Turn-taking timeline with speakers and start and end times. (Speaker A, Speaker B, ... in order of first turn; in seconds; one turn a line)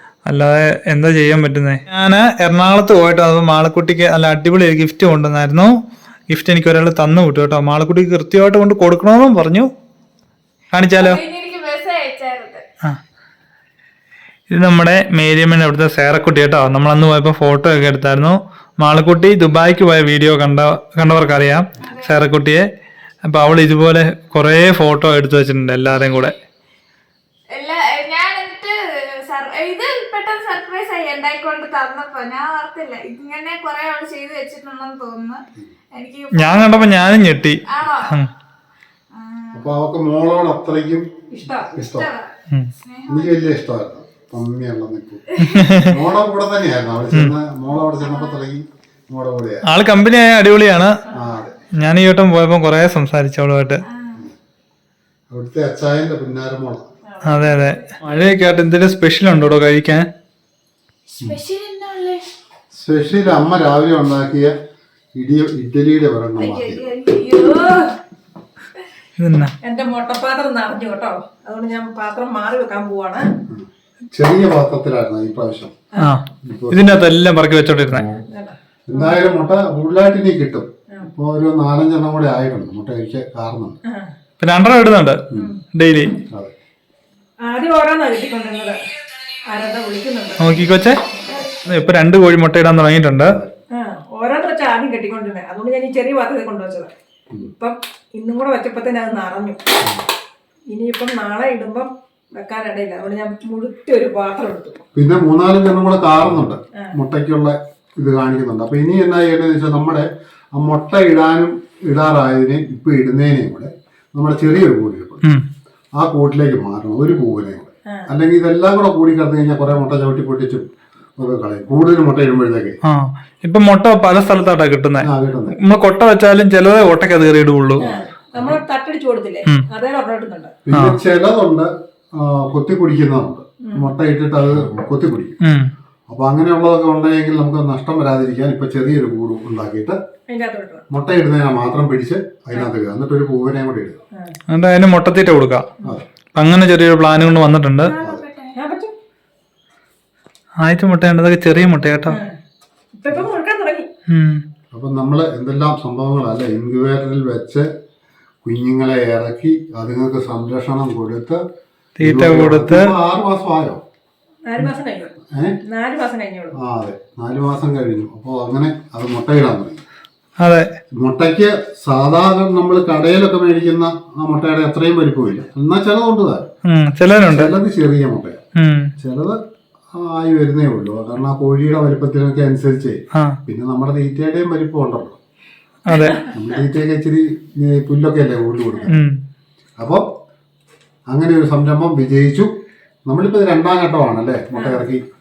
Speaker A: 0.3-5.8
Speaker A: 6.3-9.7
Speaker A: 10.7-11.2
Speaker B: 11.0-12.7
Speaker A: 14.5-22.7
Speaker B: 21.8-22.1
Speaker A: 23.2-26.4
Speaker B: 27.5-38.2
Speaker A: 36.4-38.3
Speaker B: 39.1-39.7
Speaker C: 39.5-42.1
Speaker D: 41.3-41.7
Speaker B: 41.8-43.4
Speaker C: 43.1-49.7
Speaker B: 45.4-45.7
Speaker A: 45.5-45.9
Speaker B: 47.9-48.5
Speaker A: 49.7-51.0
Speaker C: 51.1-51.6
Speaker A: 51.8-53.8
Speaker B: 53.8-54.3
Speaker C: 55.3-56.9
Speaker D: 57.0-58.0
Speaker A: 57.2-60.1
Speaker B: 61.2-62.2
Speaker C: 62.7-64.5
Speaker C: 65.2-67.0
Speaker B: 66.4-68.0
Speaker A: 69.2-69.5
Speaker D: 69.6-73.4
Speaker C: 73.5-75.8
Speaker A: 76.0-78.2
Speaker C: 76.4-77.0
Speaker D: 78.3-79.2
Speaker C: 78.9-83.8
Speaker D: 83.9-84.1
Speaker A: 84.4-86.2
Speaker D: 85.3-85.6
Speaker D: 87.4-88.8
Speaker D: 89.5-90.6
Speaker A: 90.4-91.0
Speaker B: 91.3-91.6
Speaker A: 91.6-93.4
Speaker C: 93.3-93.5
Speaker D: 93.7-99.6
Speaker D: 100.7-104.9
Speaker C: 105.0-115.3
Speaker C: 116.0-122.8
Speaker D: 117.9-118.1
Speaker A: 122.8-127.8
Speaker C: 125.0-125.6
Speaker C: 127.8-128.6
Speaker D: 127.8-130.6
Speaker C: 130.7-135.4
Speaker A: 130.7-131.0
Speaker D: 133.6-133.9
Speaker A: 135.4-135.7
Speaker C: 136.1-140.0
Speaker D: 140.3-140.9
Speaker C: 140.9-144.0
Speaker A: 144.5-145.7
Speaker A: 146.3-147.9
Speaker B: 147.8-148.6
Speaker D: 148.6-148.9
Speaker A: 150.6-152.2
Speaker D: 152.1-152.4
Speaker D: 152.9-153.9
Speaker A: 154.1-154.4
Speaker C: 154.7-157.7
Speaker C: 158.4-161.4
Speaker A: 162.0-162.9
Speaker C: 162.0-163.8
Speaker D: 164.5-166.6
Speaker C: 165.3-165.6
Speaker C: 166.5-169.8
Speaker A: 170.4-170.7
Speaker C: 170.9-176.5
Speaker A: 176.7-177.5
Speaker C: 177.2-178.4
Speaker A: 178.6-178.9
Speaker C: 179.0-179.4
Speaker C: 179.9-185.2
Speaker A: 183.1-183.4
Speaker A: 185.9-186.2
Speaker D: 185.9-186.3
Speaker C: 186.3-189.0
Speaker A: 188.9-189.2
Speaker C: 189.8-190.1
Speaker C: 191.1-192.5
Speaker C: 193.1-195.1
Speaker D: 194.6-194.8